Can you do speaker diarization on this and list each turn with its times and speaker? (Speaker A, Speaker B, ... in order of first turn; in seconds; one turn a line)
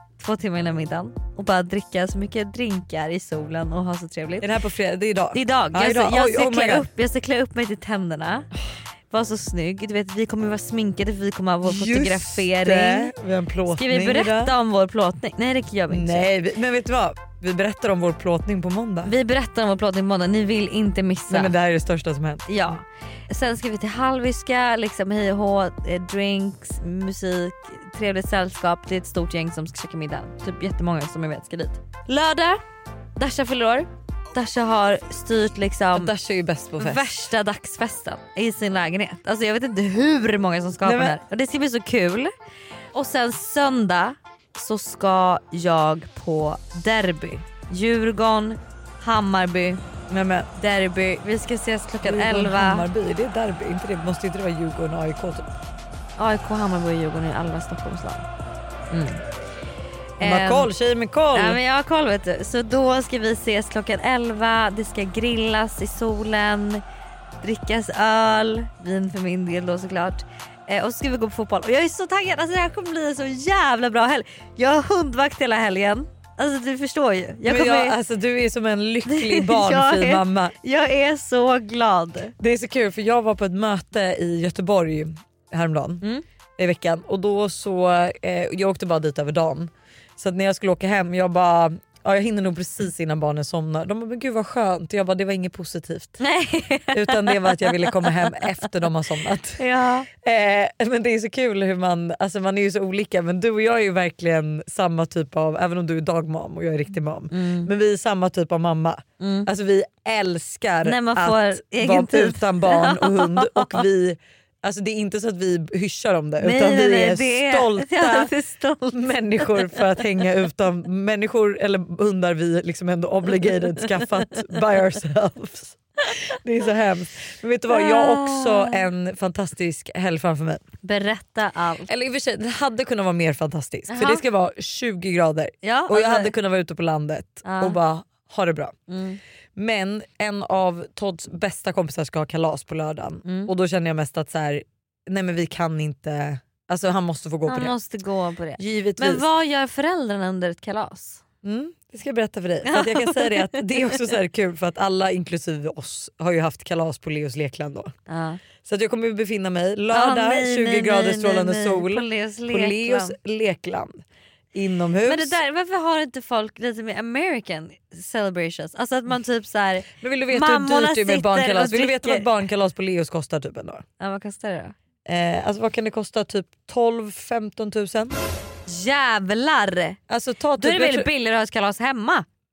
Speaker A: 0.2-4.5
Speaker B: 4.4-6.9
Speaker A: 5.3-8.5
Speaker A: 9.1-13.1
Speaker B: 11.6-14.5
Speaker A: 13.7-16.3
Speaker B: 15.9-19.1
Speaker A: 19.1-21.5
Speaker B: 21.3-22.5
Speaker A: 22.5-32.6
Speaker A: 33.2-36.1
Speaker B: 35.9-37.1
Speaker A: 36.8-42.3
Speaker B: 40.8-41.2
Speaker A: 42.9-49.8
Speaker B: 50.1-50.5
Speaker A: 50.5-52.9
Speaker B: 52.0-55.5
Speaker A: 56.2-58.3
Speaker B: 60.2-61.6
Speaker A: 60.2-60.7
Speaker A: 61.3-66.8
Speaker A: 67.4-78.0
Speaker B: 77.5-80.5
Speaker A: 79.1-82.3
Speaker B: 82.4-86.1
Speaker B: 86.6-96.2
Speaker A: 96.2-98.5
Speaker B: 96.9-130.6
Speaker A: 99.6-100.1
Speaker A: 107.3-107.7
Speaker A: 109.2-109.5
Speaker A: 110.8-113.8
Speaker A: 116.4-119.8
Speaker A: 127.7-128.8
Speaker A: 130.8-131.9
Speaker B: 131.8-138.7
Speaker A: 133.9-134.2
Speaker A: 135.6-136.3
Speaker A: 137.4-137.8
Speaker A: 138.9-139.2
Speaker B: 139.6-147.7
Speaker A: 143.2-143.5
Speaker A: 147.4-151.2
Speaker B: 148.6-149.2
Speaker B: 151.4-157.9
Speaker A: 152.6-154.0
Speaker A: 158.1-158.4
Speaker B: 158.6-164.0
Speaker A: 159.9-163.2
Speaker B: 164.5-165.3
Speaker A: 165.1-172.3
Speaker B: 170.0-173.8
Speaker A: 174.0-174.7
Speaker B: 175.1-178.2
Speaker A: 178.7-180.0
Speaker B: 180.1-181.1
Speaker A: 180.6-182.2